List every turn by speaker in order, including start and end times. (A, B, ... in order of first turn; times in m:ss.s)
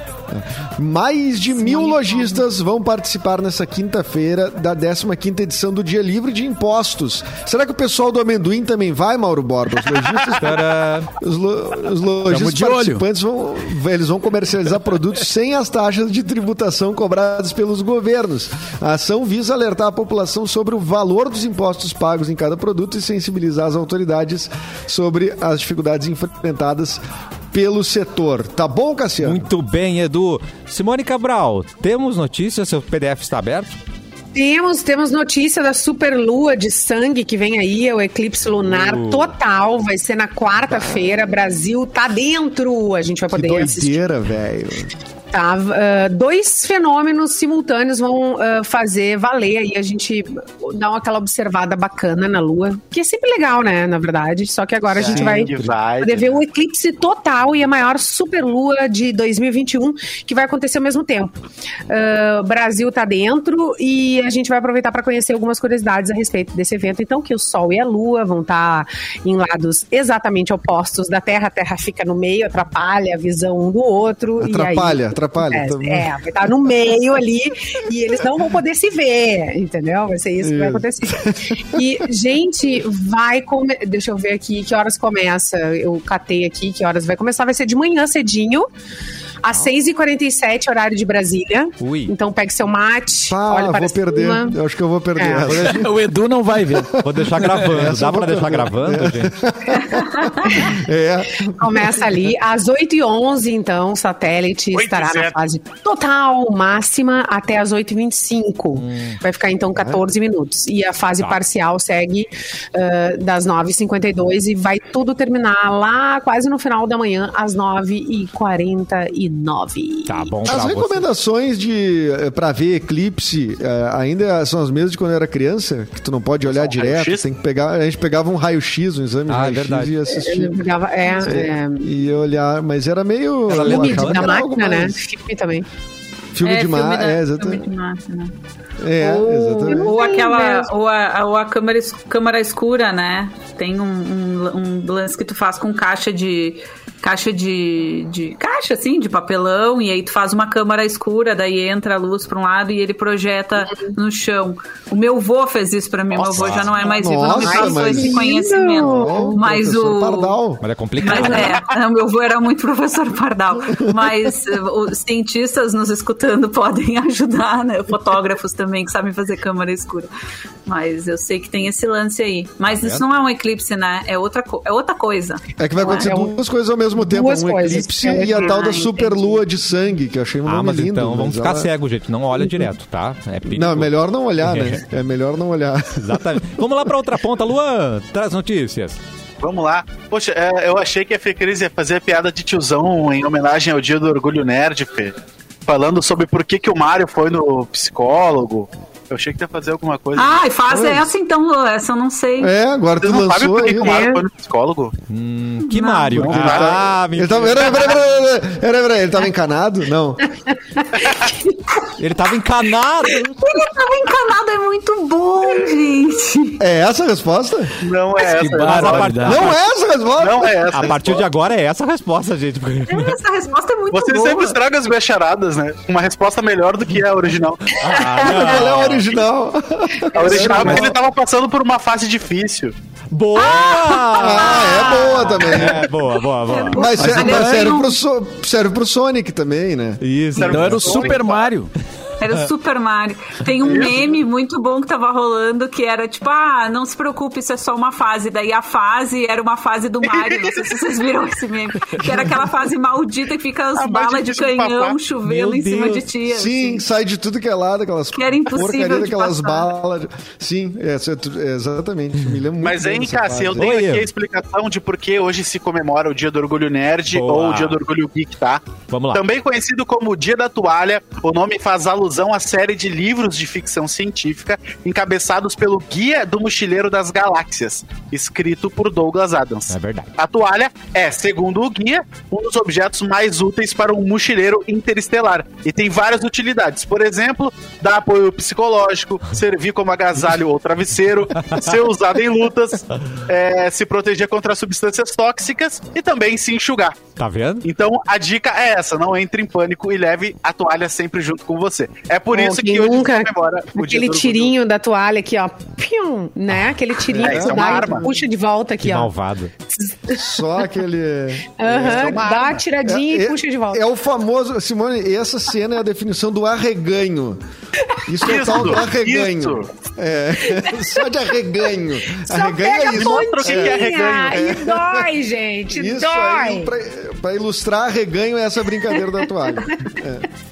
0:00.3-0:29.5 A
0:01.5-0:02.4 B
0:10.3-0:11.1 C
0:12.2-0:13.0 D
0:29.2-0:33.8 C
0:34.3-0:44.0 B
0:38.6-0:39.3 C
0:43.3-0:44.9 A
0:45.3-1:28.7 B
0:54.9-0:56.4 E
0:55.0-0:55.6 A
1:14.4-1:16.1 A
1:20.4-1:22.0 A
1:29.4-1:34.6 B
1:31.8-1:32.1 C
1:33.3-1:35.9 A
1:35.2-1:35.5 B
1:35.4-1:37.7 D
1:36.7-1:37.1 A
1:37.0-1:39.3 C
1:37.6-1:42.1 A
1:40.5-1:40.7 B
1:41.6-2:00.3 B
1:44.7-1:45.4 E
1:48.7-1:49.2 C
2:00.0-2:01.0 C
2:00.5-2:10.6 A
2:06.5-2:07.2 E
2:09.3-2:09.9 C
2:10.1-2:11.9 B
2:11.2-2:15.0 A
2:13.5-2:14.4 C
2:13.5-2:15.6 B
2:16.3-2:17.6 A
2:16.4-2:18.3 F
2:18.8-2:20.0 A
2:19.0-2:40.4 F
2:19.7-2:20.7 B
2:36.1-2:36.9 E
2:36.4-2:36.8 C
2:36.8-2:38.2 A
2:37.3-2:39.4 B
2:38.8-2:41.3 A
2:40.6-2:41.6 C
2:41.0-2:50.1 F
2:50.6-2:56.1 F
2:52.6-2:53.0 C
2:55.6-3:01.7 A
2:55.8-2:56.4 B
2:56.9-2:59.0 B
2:58.0-2:59.4 F
3:00.4-3:04.8 C
3:02.4-3:02.7 A
3:03.5-3:06.5 A
3:06.0-3:09.0 C
3:09.4-3:15.1 E
3:15.6-3:20.4 E
3:20.1-3:22.5 F
3:20.7-3:21.1 A
3:22.4-3:24.1 A
3:23.0-3:24.9 E
3:23.8-3:24.2 B
3:25.1-3:27.9 C
3:25.7-3:26.6 F
3:26.2-3:30.3 A
3:26.3-3:26.8 E
3:32.0-3:33.4 C
3:33.4-3:36.6 F
3:36.6-3:37.8 A
3:37.8-3:39.4 E
3:38.3-3:39.6 C
3:38.3-3:39.5 D
3:39.2-3:40.6 A
3:40.2-3:41.3 E
3:40.7-3:43.2 C
3:42.9-3:44.6 F
3:43.9-3:48.1 E
3:47.7-3:49.1 C
3:48.1-3:50.9 A
3:50.1-3:52.7 E
3:50.5-3:50.9 C
3:53.1-3:56.9 C
3:53.4-3:55.6 F
3:54.1-3:55.9 A
3:56.4-3:58.0 F
3:56.7-4:00.0 A
3:56.9-3:57.8 D
4:00.0-4:01.2 C
4:00.3-4:01.5 E
4:00.4-4:01.7 D
4:02.2-4:16.8 F
4:03.6-4:04.1 E
4:12.0-4:12.3 A
4:13.8-4:15.0 E
4:15.2-4:16.1 C
4:16.3-4:23.8 A
4:18.1-4:19.7 F
4:22.6-4:57.1 E
4:23.6-4:24.1 C
4:27.1-4:27.8 C
4:28.9-4:29.2 C
4:39.7-4:40.1 C
4:51.3-4:51.7 C
4:57.2-4:57.6 C
4:57.6-5:04.5 E
5:02.3-5:09.1 B
5:07.1-5:08.1 A
5:07.2-5:08.1 E
5:08.8-5:09.5 C
5:09.8-5:10.5 B
5:10.1-5:17.4 A
5:11.6-5:13.8 B
5:18.0-5:25.1 A
5:18.2-5:19.7 E
5:20.5-5:20.8 B
5:22.1-5:26.7 B
5:22.9-5:24.5 E
5:25.7-5:30.3 A